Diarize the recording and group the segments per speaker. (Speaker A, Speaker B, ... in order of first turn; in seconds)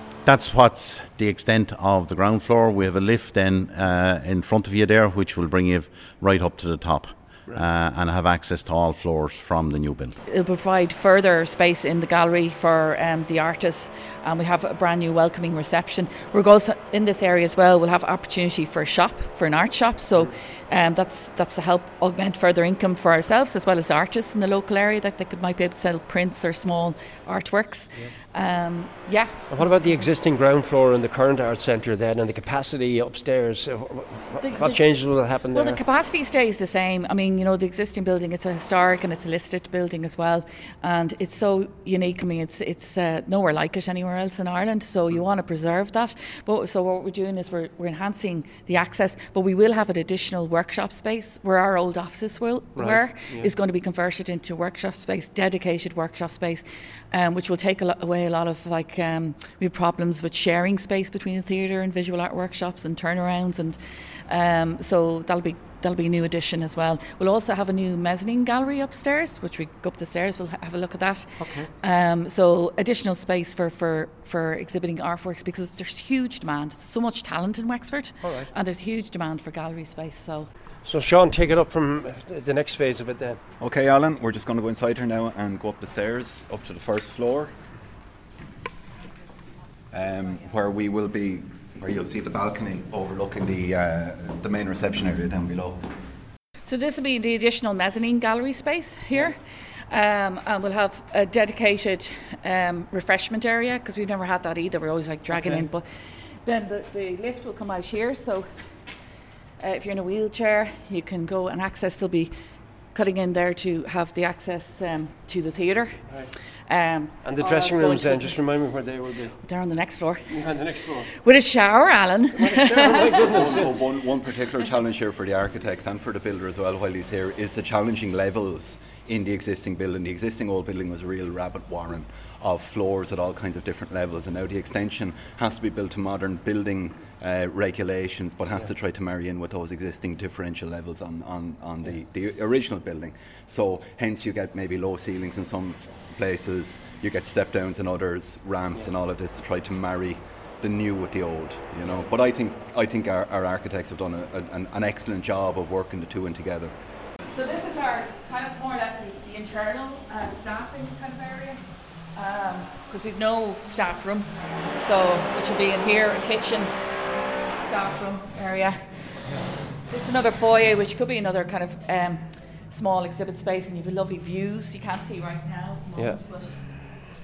Speaker A: 0.2-10.2
Speaker B: 10.2-29.7, 34.4-80.5, 96.7-99.4, 99.9-105.8, 106.4-108.4, 109.6-112.3, 112.9-116.1, 116.7-118.4, 119.4-120.4, 121.1-123.1, 157.3-166.7, 167.6-169.3, 169.9-176.6
Speaker C: 29.5-35.8, 52.8-53.5, 71.4-71.7, 78.2-78.5, 80.8-83.4, 105.3-105.6, 117.2-119.4, 120.3-121.1, 122.3-123.7
Speaker D: 83.6-87.5, 89.9-95.8, 123.3-156.7